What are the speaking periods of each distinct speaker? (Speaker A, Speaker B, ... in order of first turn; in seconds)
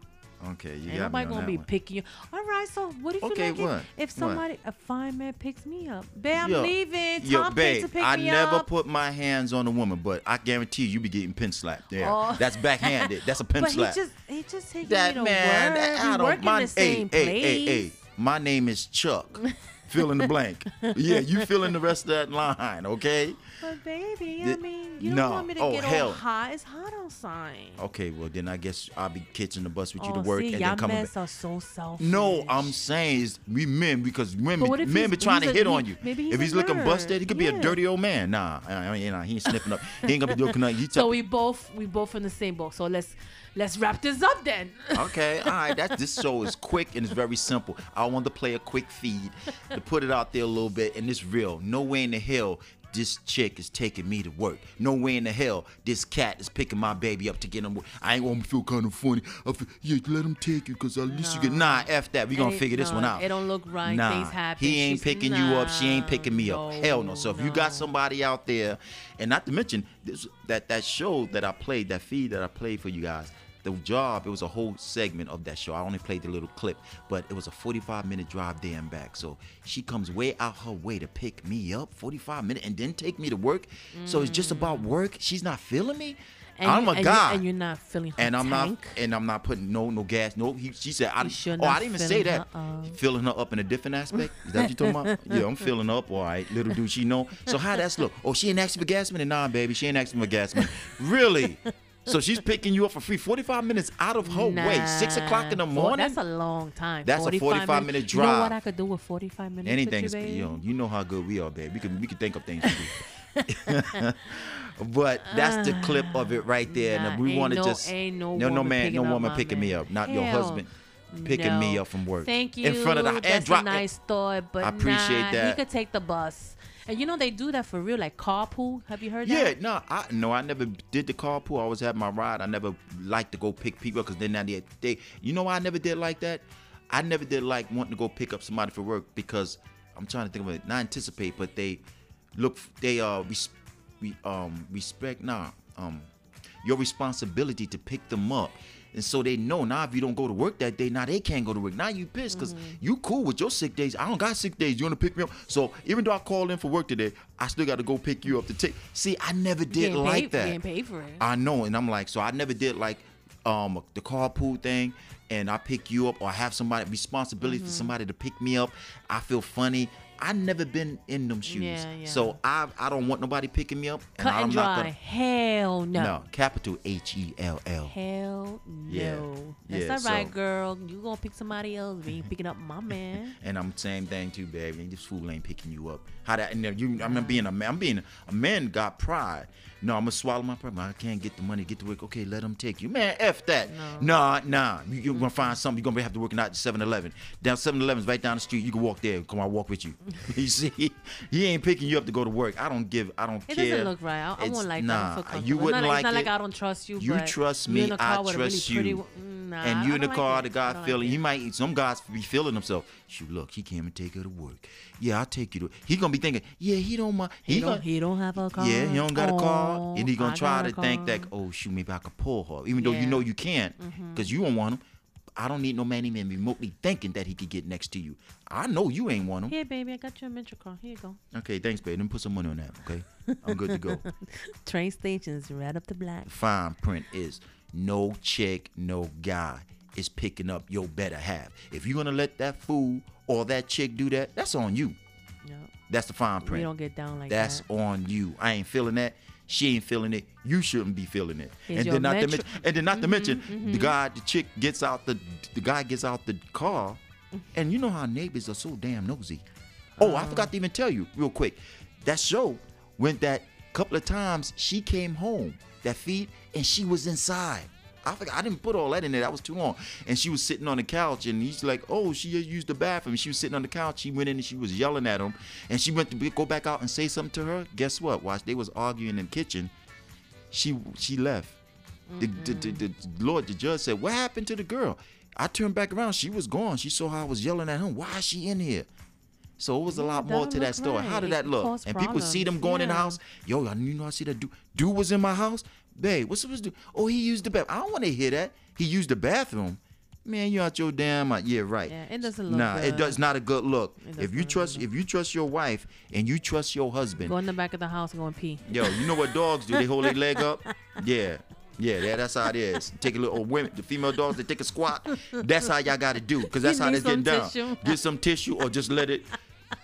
Speaker A: 0.4-1.7, 3.2-4.4, 6.3-14.0, 14.8-23.5, 24.4-26.2, 27.8-31.1, 32.0-41.1, 44.9-63.3, 63.8-87.5, 88.2-106.2, 107.0-108.6, 109.7-120.7, 121.2-123.8, 124.6-125.6, 129.2-141.8, 142.3-146.1, 146.6-160.6, 161.2-174.9, 175.9-177.9, 178.9-180.3, 183.2-206.3, 207.0-209.0, 209.6-217.8, 218.3-224.8, 225.3-229.5, 231.3-234.0, 236.3-245.0, 245.9-246.7, 247.3-257.0, 257.5-259.4, 260.0-279.7, 280.5-281.6, 282.2-288.9, 289.6-307.4, 308.6-319.3
Speaker B: 0.9-8.7, 11.9-17.9, 20.0-20.2, 20.8-21.5, 23.6-27.8, 30.0-32.7, 34.6-37.8, 39.5-46.2, 61.1-67.9, 83.9-84.9, 86.6-89.0, 91.2-93.0, 94.2-95.7, 100.5-100.9, 104.2-110.6, 112.6-114.3, 115.3-129.5, 152.3-152.8, 159.7-161.2, 167.4-168.0, 171.4-172.4, 174.2-176.2, 177.8-183.3, 187.0-187.5, 193.7-194.2, 195.1-195.6, 203.5-211.2, 217.5-221.3, 222.7-223.3, 223.8-224.3, 229.5-231.2, 233.3-236.3, 245.4-245.7, 246.4-247.7, 251.7-254.0, 260.0-260.5, 282.1-282.9, 289.9-293.2, 301.9-303.2, 304.0-304.9, 307.2-310.4, 315.1-315.7, 316.4-318.0